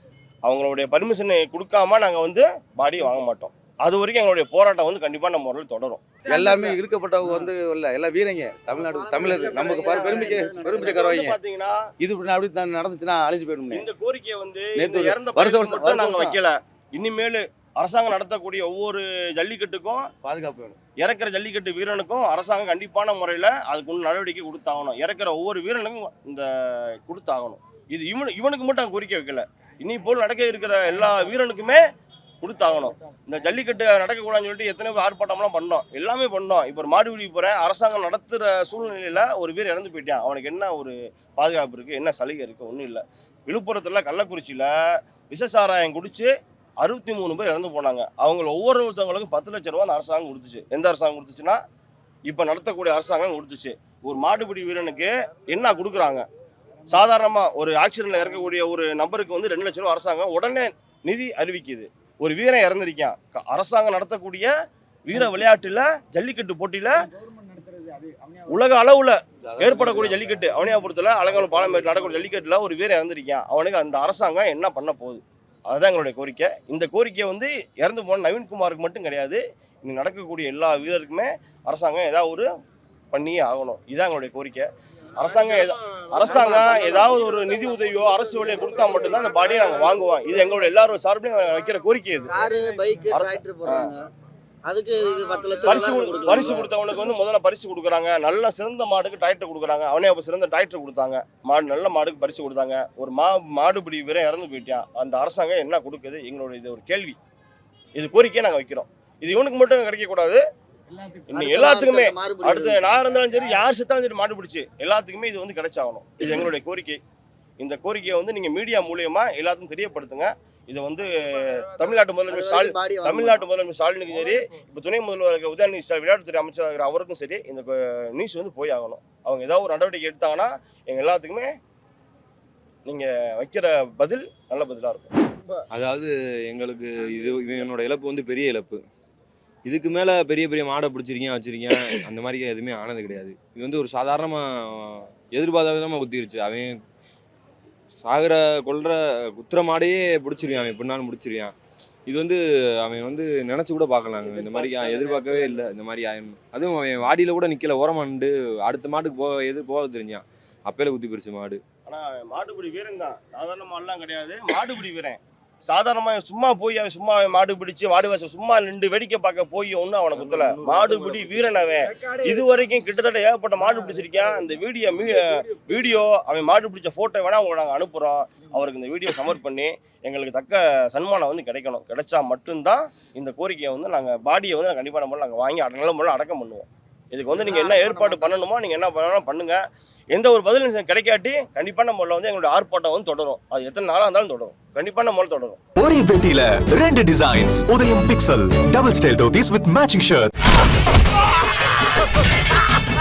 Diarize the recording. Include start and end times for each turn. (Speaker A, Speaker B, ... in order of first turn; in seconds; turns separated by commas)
Speaker A: 0.4-6.1, Speaker B: 6.3-11.3, Speaker C: 8.8-11.0, Speaker A: 10.7-11.8, Speaker B: 12.0-13.9, Speaker A: 13.7-20.0, Speaker B: 14.8-16.4, Speaker B: 20.2-20.8, Speaker A: 21.0-26.4, Speaker A: 27.1-31.8, Speaker A: 32.4-44.7, Speaker A: 45.3-46.3, Speaker A: 46.8-51.6, Speaker A: 52.3-56.2, Speaker A: 56.9-64.5, Speaker A: 65.1-66.9, Speaker A: 68.5-82.5, Speaker B: 69.6-70.3, Speaker A: 83.1-84.7, Speaker A: 85.2-92.3, Speaker C: 86.4-87.2, Speaker C: 92.3-94.0, Speaker A: 93.1-93.9, Speaker C: 94.6-96.7, Speaker A: 95.6-107.2, Speaker A: 108.0-110.4, Speaker C: 110.9-113.1, Speaker A: 111.3-117.0, Speaker A: 117.6-131.5, Speaker C: 122.3-123.4, Speaker A: 132.8-135.1, Speaker D: 135.7-138.8, Speaker D: 139.7-146.7, Speaker D: 148.0-151.5, Speaker D: 152.1-161.6, Speaker A: 161.8-189.6, Speaker C: 187.5-188.2, Speaker A: 190.1-195.6, Speaker E: 195.8-200.3